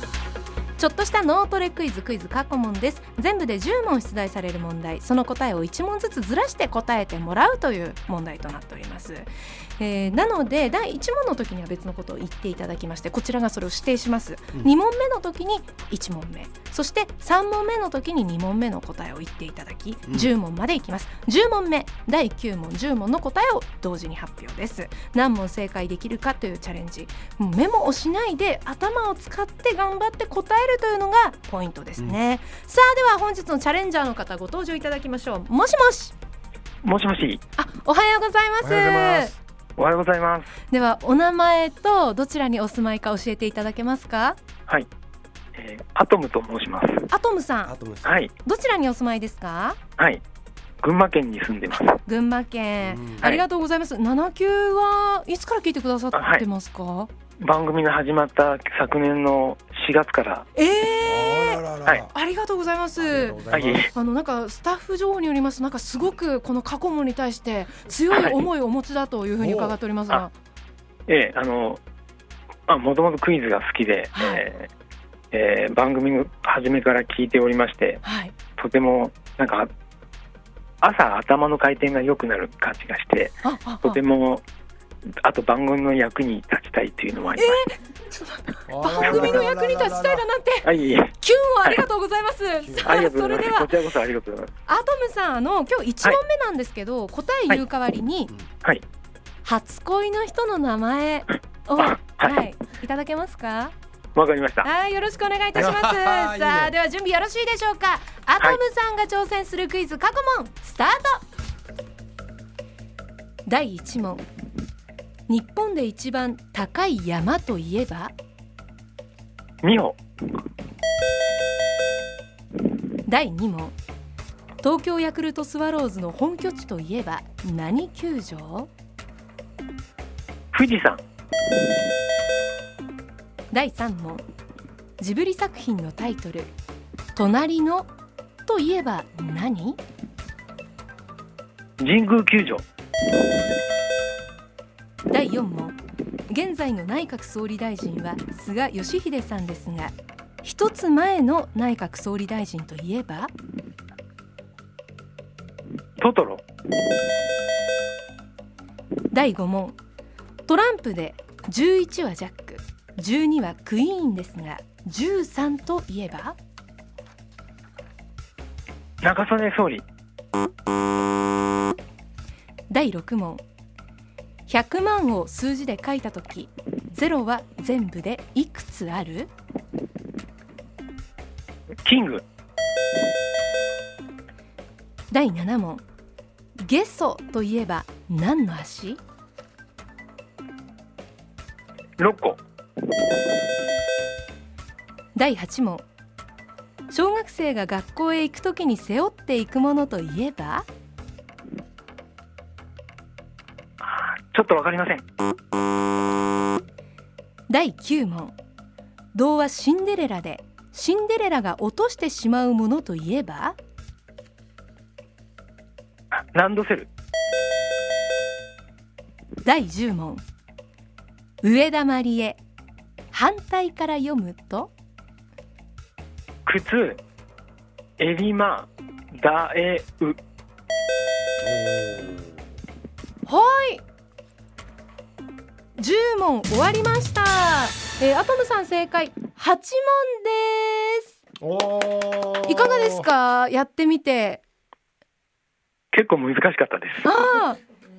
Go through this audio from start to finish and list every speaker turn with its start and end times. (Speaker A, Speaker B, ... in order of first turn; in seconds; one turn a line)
Speaker A: 0.8-36.1
Speaker B: 36.8-37.4
Speaker A: 37.6-39.3
Speaker C: 38.6-39.4
Speaker B: 39.8-40.5
Speaker A: 40.7-44.4
Speaker B: 45.5-47.1
Speaker A: 47.1-47.7
Speaker C: 47.6-48.2
Speaker B: 48.0-48.3
Speaker A: 48.4-49.8
Speaker B: 50.8-52.0
Speaker A: 51.8-57.1
Speaker C: 52.8-53.3
Speaker B: 56.1-56.4
Speaker B: 57.4-60.5
Speaker A: 60.5-70.3
Speaker C: 61.0-62.1
Speaker C: 63.0-63.9
Speaker B: 63.5-63.9
Speaker B: 68.1-68.4
Speaker C: 69.4-69.8
Speaker B: 71.1-71.8
Speaker B: 72.7-74.7
Speaker A: 74.1-74.4
Speaker B: 75.3-78.0
Speaker A: 78.0-78.3
Speaker B: 78.6-79.7
Speaker B: 80.8-84.4
Speaker A: 83.4-84.0
Speaker B: 85.2-87.6
Speaker A: 87.3-93.7
Speaker C: 88.7-90.3
Speaker B: 89.0-89.5
Speaker B: 90.6-91.8
Speaker C: 92.6-93.0
Speaker B: 92.8-94.5
Speaker A: 94.7-98.3
Speaker A: 99.4-103.7
Speaker B: 101.8-102.4
Speaker B: 104.2-104.7
Speaker A: 104.6-111.2
Speaker C: 105.5-106.7
Speaker A: 113.5-114.2
Speaker A: 115.3-118.1
Speaker B: 119.6-120.0
Speaker A: 123.0-123.8
Speaker A: 124.6-128.7
Speaker B: 130.5-131.0
Speaker A: 133.5-134.2
Speaker A: 135.0-136.5
Speaker A: 137.1-137.9
Speaker A: 138.4-139.8
Speaker B: 141.8-142.6
Speaker A: 145.1-145.8
Speaker A: 146.3-153.3
Speaker B: 156.0-156.4
Speaker A: 159.1-159.8
Speaker A: 160.5-166.3
Speaker B: 169.0-169.8
Speaker A: 172.7-173.4
Speaker A: 174.5-179.3
Speaker B: 181.8-182.2
Speaker A: 185.1-185.8
Speaker A: 186.6-189.0
Speaker B: 192.0-192.4
Speaker A: 195.1-195.8
Speaker A: 196.9-200.7
Speaker B: 203.8-205.0
Speaker A: 207.5-208.3
Speaker A: 209.1-213.6
Speaker B: 216.1-216.9
Speaker A: 219.4-220.2
Speaker A: 221.4-222.4
Speaker A: 223.1-224.7
Speaker B: 226.4-227.0
Speaker B: 228.0-230.2
Speaker C: 231.4-232.4
Speaker A: 233.2-233.8
Speaker A: 235.8-241.2
Speaker C: 241.4-243.1
Speaker A: 242.4-244.4
Speaker B: 245.9-247.1
Speaker A: 247.0-247.6